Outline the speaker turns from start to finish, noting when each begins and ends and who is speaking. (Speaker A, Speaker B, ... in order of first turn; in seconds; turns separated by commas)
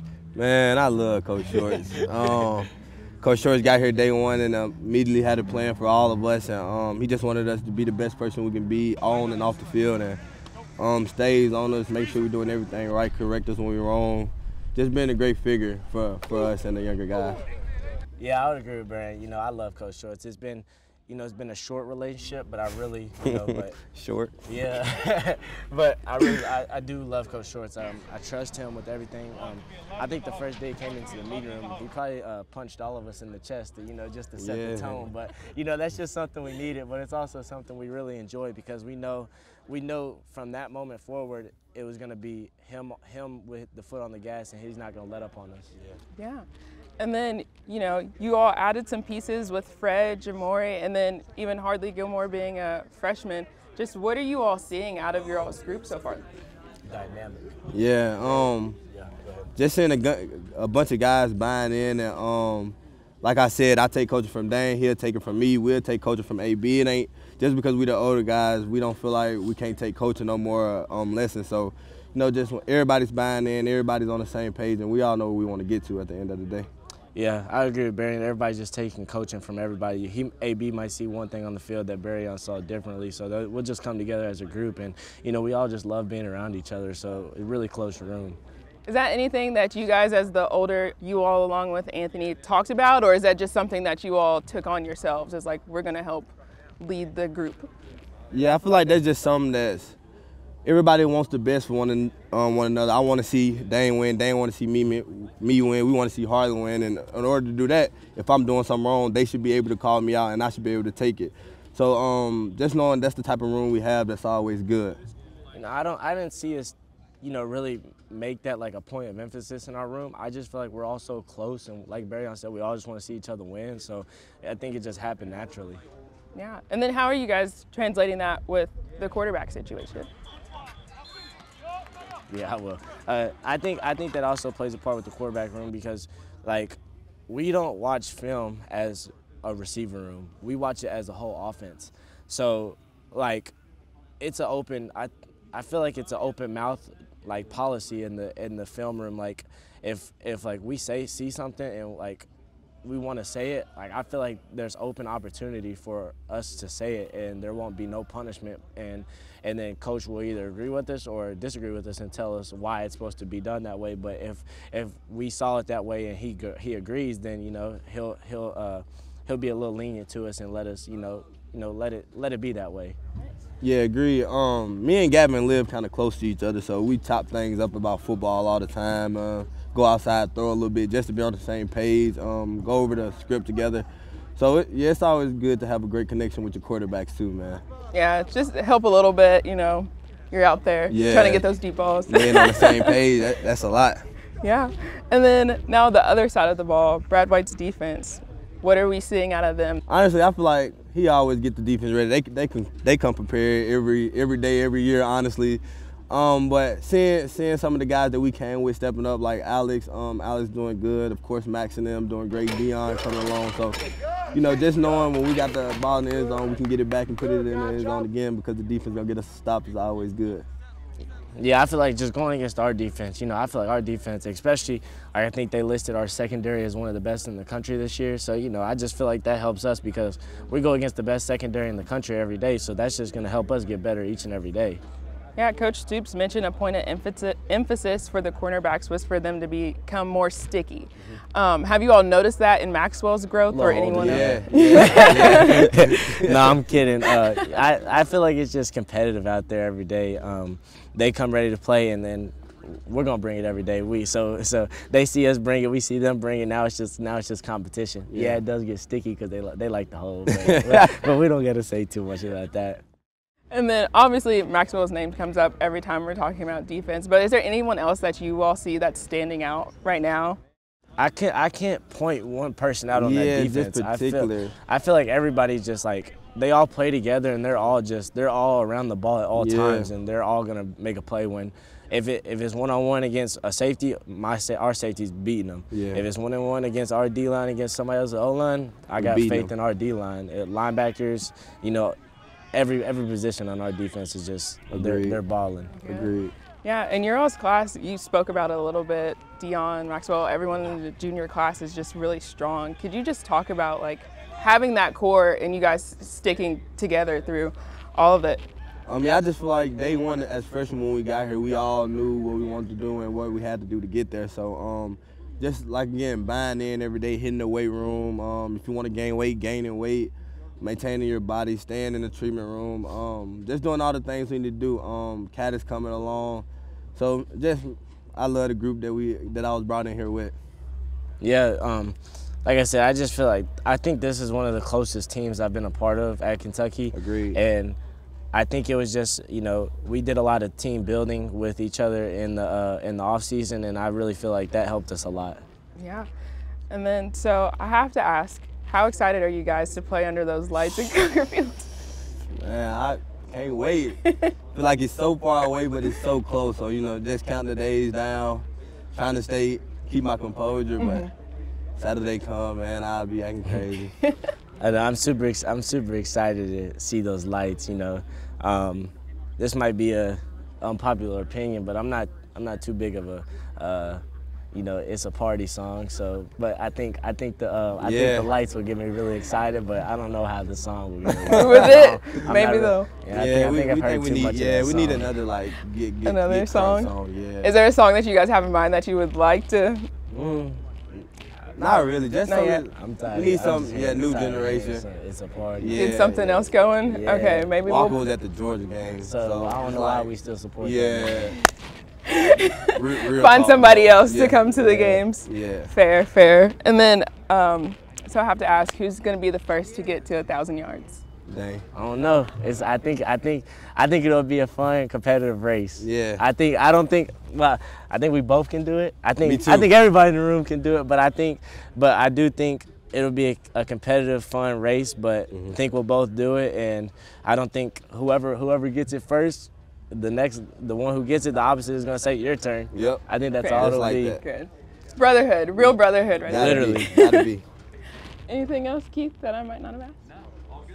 Speaker A: 0.3-2.7, Speaker A: 3.2-10.2, Speaker A: 10.8-17.4, Speaker B: 18.2-23.8, Speaker A: 23.3-24.4, Speaker B: 24.5-45.7, Speaker A: 34.4-35.1, Speaker C: 46.1-46.4, Speaker C: 47.0-56.2, Speaker B: 56.9-57.5, Speaker A: 57.7-58.8, Speaker B: 58.2-59.5, Speaker A: 59.6-76.7, Speaker B: 77.1-88.4, Speaker C: 88.8-97.7, Speaker A: 98.3-100.0, Speaker A: 100.6-115.0, Speaker B: 115.5-125.8, Speaker C: 126.3-130.1, Speaker B: 132.3-143.5, Speaker B: 144.2-152.3, Speaker B: 152.8-173.0, Speaker A: 173.6-187.6, Speaker C: 187.9-192.9, Speaker A: 190.9-191.4, Speaker A: 192.1-194.0, Speaker C: 194.4-199.8, Speaker A: 199.9-213.8, Speaker A: 214.3-220.4, Speaker B: 221.3-234.8, Speaker C: 235.3-245.7, Speaker B: 243.5-262.8, Speaker A: 243.9-246.6, Speaker A: 258.1-258.4, Speaker A: 260.3-261.1, Speaker C: 263.5-270.4, Speaker B: 271.0-291.9, Speaker A: 272.9-274.5, Speaker A: 279.3-279.9, Speaker A: 285.7-286.0, Speaker A: 289.0-289.5, Speaker B: 292.5-295.8, Speaker A: 294.7-295.2, Speaker C: 295.8-296.1, Speaker A: 295.8-296.3, Speaker C: 296.6-308.4, Speaker A: 308.9-330.3, Speaker B: 331.2-337.8, Speaker A: 336.9-337.4, Speaker B: 338.3-345.4, Speaker C: 345.8-346.1, Speaker C: 346.7-351.7, Speaker A: 352.3-354.0, Speaker C: 354.0-354.3, Speaker A: 354.5-361.1, Speaker C: 360.8-361.1, Speaker A: 361.8-363.9, Speaker B: 364.6-385.1, Speaker A: 377.8-378.3, Speaker A: 381.1-382.4, Speaker C: 381.3-382.9, Speaker A: 383.1-387.5, Speaker C: 386.0-386.9, Speaker C: 387.4-389.9, Speaker B: 390.1-390.6, Speaker A: 391.6-394.8, Speaker C: 392.3-392.6, Speaker B: 392.7-395.9, Speaker A: 395.6-396.5, Speaker C: 395.7-398.1, Speaker B: 396.9-397.6, Speaker A: 397.6-400.1, Speaker B: 399.0-401.4, Speaker A: 400.6-401.4, Speaker C: 402.1-411.0, Speaker A: 402.7-405.7, Speaker B: 404.6-405.0, Speaker A: 411.3-411.6, Speaker B: 411.7-434.2, Speaker A: 415.8-416.2, Speaker A: 419.2-419.7, Speaker A: 425.3-425.6, Speaker A: 432.7-434.2, Speaker C: 433.4-437.2, Speaker A: 436.2-437.4, Speaker B: 436.3-436.9, Speaker C: 438.3-439.9